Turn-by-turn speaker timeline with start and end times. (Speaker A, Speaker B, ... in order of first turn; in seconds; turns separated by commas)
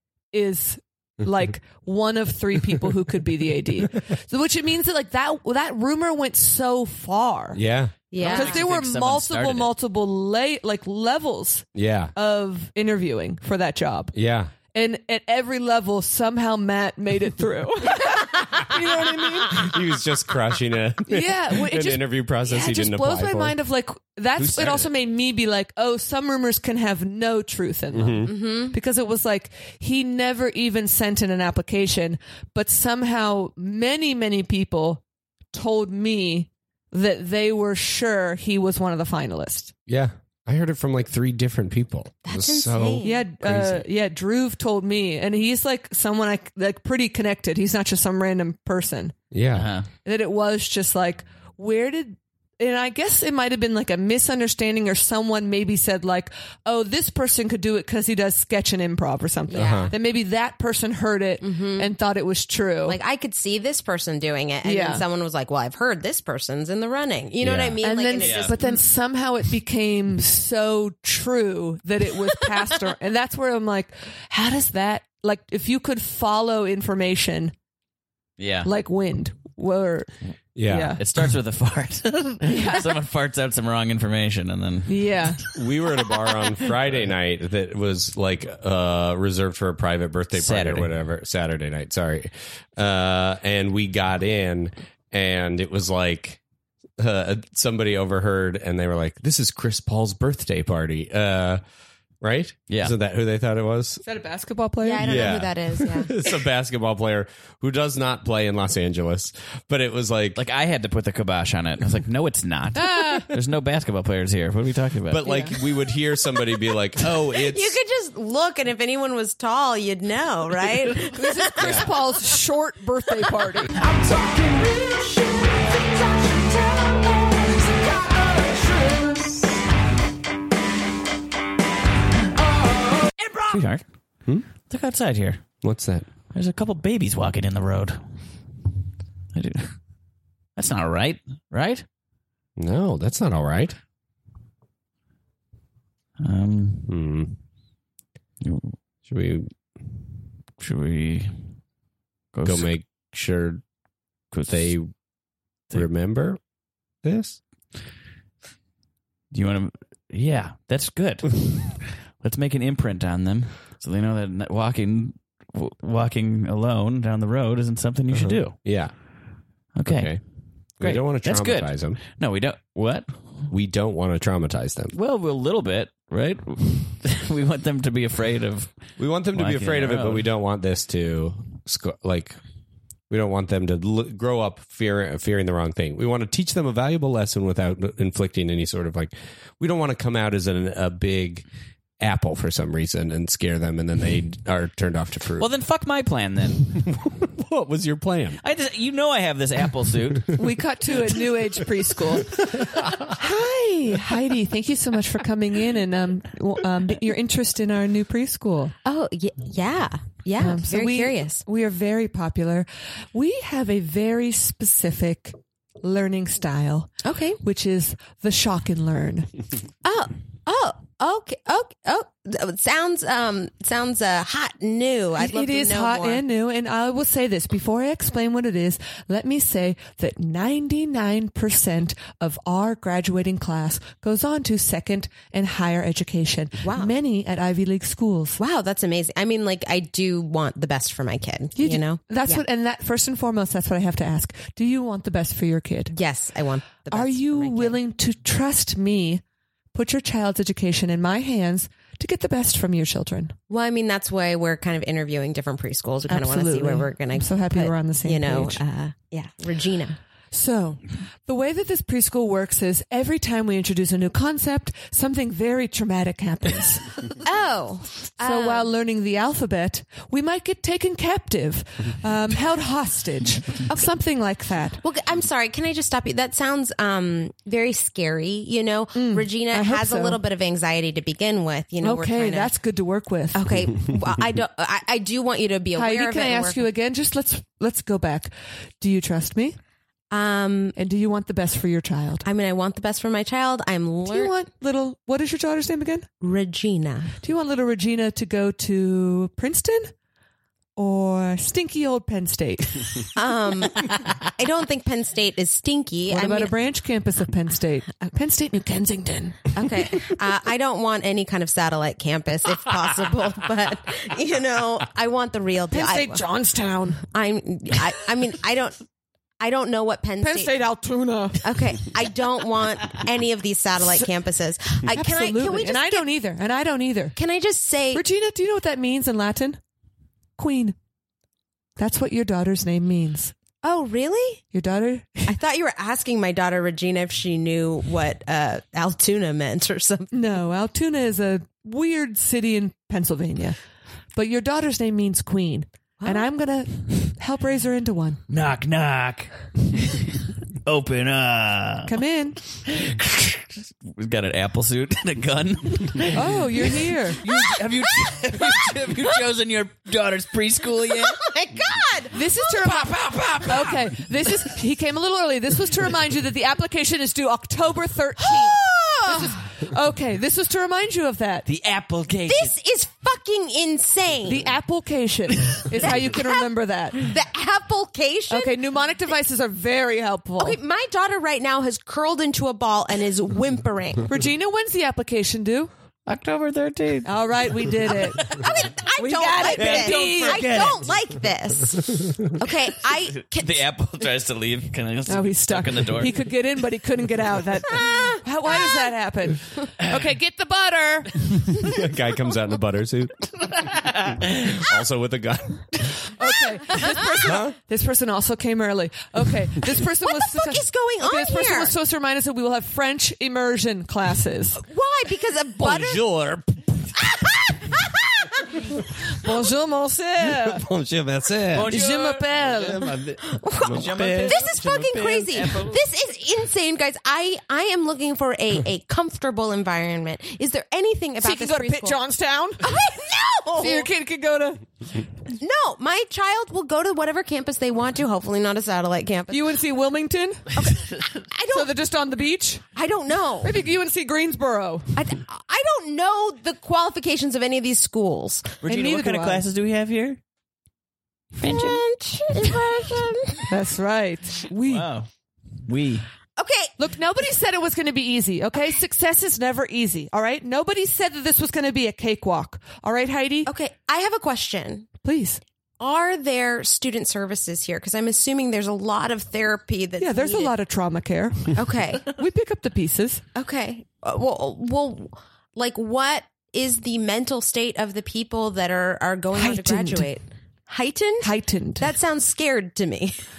Speaker A: 0.3-7.6, Speaker B: 7.5-8.0, Speaker C: 8.1-8.6, Speaker A: 8.2-19.8, Speaker D: 8.2-9.7, Speaker B: 11.7-12.1, Speaker B: 14.1-14.6, Speaker B: 19.4-23.6, Speaker A: 21.1-39.7, Speaker B: 24.4-24.8, Speaker B: 27.9-28.3, Speaker C: 28.2-28.8, Speaker B: 39.9-43.8, Speaker C: 42.2-43.3, Speaker A: 43.0-49.2, Speaker B: 49.3-49.7, Speaker D: 49.5-49.9, Speaker A: 50.0-63.0, Speaker C: 59.5-59.9, Speaker B: 59.5-59.9, Speaker C: 61.4-61.9, Speaker C: 62.8-68.8, Speaker A: 64.6-65.0, Speaker B: 67.4-67.8, Speaker A: 67.8-77.5, Speaker D: 68.2-68.5, Speaker D: 78.4-78.7, Speaker A: 78.6-80.1, Speaker B: 80.5-81.0, Speaker A: 80.7-81.0, Speaker D: 81.0-85.4, Speaker A: 82.4-82.9, Speaker A: 84.9-85.4, Speaker B: 85.5-96.4, Speaker D: 86.0-86.5, Speaker D: 90.3-90.9, Speaker B: 97.0-101.6, Speaker B: 102.2-104.0, Speaker D: 102.7-103.0, Speaker A: 104.0-105.4, Speaker C: 104.8-106.1, Speaker B: 105.0-110.4, Speaker D: 110.3-115.2, Speaker A: 112.7-113.3, Speaker B: 115.1-117.7, Speaker A: 115.2-115.6, Speaker C: 117.3-121.8, Speaker A: 121.0-123.8, Speaker D: 121.6-121.8, Speaker E: 123.7-129.5, Speaker E: 132.4-133.2, Speaker D: 133.3-133.8, Speaker D: 134.6-135.4, Speaker B: 135.6-136.1, Speaker D: 136.3-138.0, Speaker D: 139.3-139.7, Speaker D: 140.6-141.8, Speaker B: 142.6-143.8, Speaker D: 146.2-146.9, Speaker B: 146.9-147.3, Speaker D: 148.4-148.7, Speaker B: 149.1-149.5, Speaker D: 150.6-151.4, Speaker D: 152.3-152.7, Speaker B: 152.4-153.6, Speaker D: 154.3-154.7, Speaker B: 154.4-154.9, Speaker B: 155.7-156.4, Speaker B: 157.0-157.4, Speaker D: 159.3-168.6, Speaker B: 168.1-169.0, Speaker D: 169.8-173.5, Speaker B: 169.9-170.2, Speaker B: 170.8-172.0, Speaker B: 173.5-174.9, Speaker D: 174.9-180.3, Speaker B: 179.0-182.4, Speaker B: 183.1-191.4, Speaker B: 192.0-195.4, Speaker D: 195.4-196.9, Speaker B: 196.9-198.4, Speaker D: 198.4-200.3, Speaker A: 200.3-208.7, Speaker C: 208.8-211.4, Speaker A: 210.4-219.3, Speaker C: 217.0-217.4, Speaker C: 219.8-226.2, Speaker A: 225.2-238.4, Speaker C: 236.6-236.9, Speaker C: 238.4-242.4, Speaker A: 241.6-245.9, Speaker C: 245.9-247.8, Speaker A: 246.9-249.2, Speaker A: 249.7-253.3, Speaker C: 253.5-260.0, Speaker A: 256.1-258.6, Speaker A: 260.3-267.0, Speaker C: 267.2-268.7, Speaker A: 268.2-274.8, Speaker C: 274.8-282.5, Speaker A: 278.9-280.2, Speaker A: 281.8-283.5, Speaker C: 283.3-286.7, Speaker A: 285.8-289.6, Speaker C: 290.1-290.8, Speaker A: 290.8-292.2, Speaker C: 292.2-294.3, Speaker A: 294.1-296.1, Speaker C: 296.2-297.1, Speaker A: 297.2-299.9, Speaker A: 300.8-303.1, Speaker C: 303.1-306.5, Speaker A: 306.1-309.9, Speaker C: 309.5-316.2, Speaker A: 315.7-317.0, Speaker C: 317.1-318.8, Speaker C: 319.4-320.5, Speaker A: 320.2-321.8, Speaker C: 321.4-326.1, Speaker A: 324.9-327.1, Speaker C: 327.1-328.0, Speaker A: 327.9-329.6, Speaker A: 330.4-330.7, Speaker A: 331.8-333.3, Speaker C: 333.6-334.4, Speaker A: 334.5-335.3, Speaker C: 335.2-340.1, Speaker A: 340.1-343.6, Speaker A: 344.1-348.2, Speaker C: 346.0-346.3, Speaker D: 348.3-350.1, Speaker D: 350.6-351.9, Speaker A: 351.9-352.4, Speaker D: 352.6-361.2, Speaker A: 356.1-357.2, Speaker C: 358.1-358.4, Speaker C: 360.9-362.1, Speaker A: 362.1-371.4, Speaker D: 362.4-364.4, Speaker C: 368.2-369.4, Speaker D: 371.4-372.5, Speaker C: 372.2-374.5, Speaker A: 374.3-377.1, Speaker C: 376.0-378.5, Speaker A: 378.3-380.6, Speaker C: 380.4-384.1, Speaker A: 384.1-385.7, Speaker D: 386.1-388.6, Speaker A: 387.0-388.3, Speaker C: 388.3-393.6, Speaker A: 389.0-390.7, Speaker D: 389.5-390.9, Speaker D: 393.3-396.2, Speaker A: 395.1-401.6, Speaker C: 397.7-398.9, Speaker B: 401.6-406.1, Speaker A: 406.1-414.6, Speaker C: 406.6-407.1, Speaker B: 407.2-407.5, Speaker C: 409.8-411.7, Speaker C: 414.5-416.0, Speaker D: 415.6-416.4, Speaker C: 417.0-418.6, Speaker A: 419.1-420.6, Speaker B: 420.2-421.7, Speaker D: 421.5-422.4, Speaker A: 421.6-422.9, Speaker B: 422.4-424.5, Speaker C: 423.2-432.0, Speaker D: 423.6-425.8, Speaker A: 431.2-432.7, Speaker C: 432.6-433.9, Speaker A: 433.6-434.7, Speaker C: 435.4-439.5, Speaker A: 439.3-440.7, Speaker C: 440.5-441.7, Speaker A: 441.5-442.6, Speaker C: 442.7-443.5, Speaker A: 443.4-444.9, Speaker C: 444.9-448.6, Speaker D: 448.6-450.2, Speaker A: 448.6-449.4, Speaker D: 451.4-451.8, Speaker C: 451.4-453.5, Speaker A: 453.5-454.9, Speaker D: 454.6-455.1, Speaker D: 455.6-456.1, Speaker C: 456.4-456.7, Speaker A: 456.8-463.5, Speaker C: 463.4-464.9, Speaker A: 465.0-465.4, Speaker C: 465.8-470.5, Speaker A: 470.0-473.2, Speaker C: 471.5-472.1, Speaker C: 473.3-483.2, Speaker A: 479.3-480.1, Speaker A: 481.2-481.9